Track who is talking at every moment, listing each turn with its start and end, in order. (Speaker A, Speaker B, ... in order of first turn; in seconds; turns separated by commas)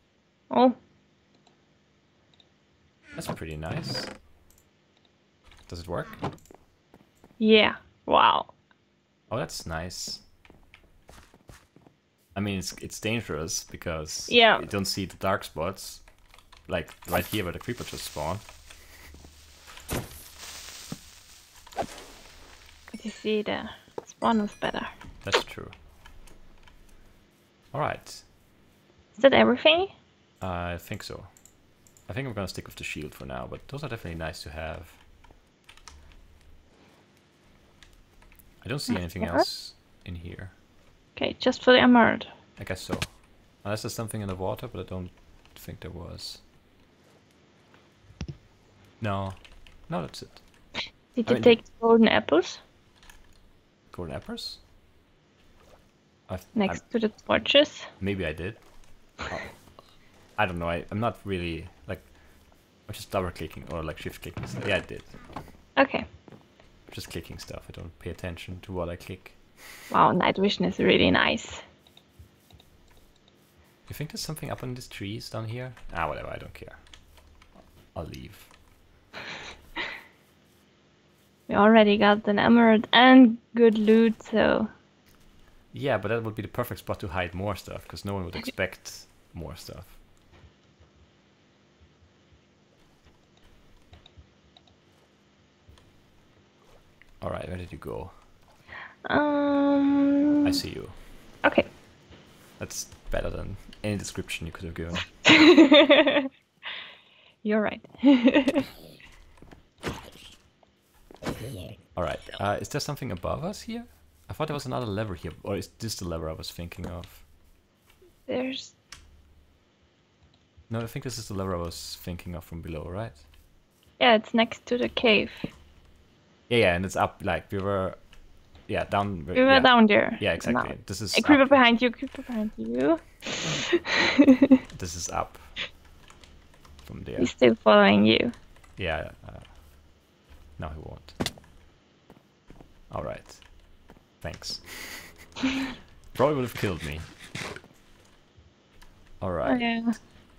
Speaker A: 0.5-0.8, Speaker B: 3.2-4.1, Speaker B: 5.7-6.2, Speaker A: 7.4-8.5, Speaker B: 9.3-10.2, Speaker B: 12.3-16.0, Speaker A: 14.3-14.7, Speaker B: 16.7-18.4, Speaker A: 22.9-24.9, Speaker B: 25.2-25.7, Speaker B: 27.7-28.2, Speaker A: 29.1-29.9, Speaker B: 30.4-31.3, Speaker B: 32.1-35.0, Speaker B: 38.6-40.5, Speaker A: 38.9-39.5, Speaker A: 41.1-42.3, Speaker B: 42.6-46.4, Speaker B: 49.0-50.4, Speaker A: 51.1-52.6, Speaker B: 51.3-51.6, Speaker B: 53.9-54.6, Speaker B: 56.3-56.8, Speaker A: 56.5-57.9, Speaker B: 58.0-58.6, Speaker B: 59.3-59.5, Speaker B: 60.4-62.1, Speaker B: 62.9-65.2, Speaker A: 65.8-66.0, Speaker B: 66.9-69.4, Speaker A: 69.9-71.6, Speaker B: 73.9-76.8, Speaker B: 77.9-78.5, Speaker A: 81.5-84.7, Speaker B: 85.7-90.0, Speaker B: 97.2-98.1, Speaker A: 99.0-100.6, Speaker B: 100.4-101.0, Speaker A: 101.4-101.7, Speaker B: 102.6-105.1, Speaker A: 105.2-106.3, Speaker A: 107.4-108.7, Speaker B: 112.0-117.2, Speaker A: 118.3-118.7, Speaker B: 120.7-123.2, Speaker A: 124.0-125.5, Speaker B: 126.5-128.0, Speaker B: 128.7-131.4, Speaker A: 129.3-134.6, Speaker B: 134.7-135.5, Speaker B: 136.8-137.3, Speaker A: 137.2-138.3, Speaker B: 138.8-139.6, Speaker B: 140.6-141.1, Speaker B: 142.9-143.4, Speaker B: 144.2-145.1, Speaker B: 146.1-147.1, Speaker B: 149.2-149.7, Speaker A: 149.4-150.0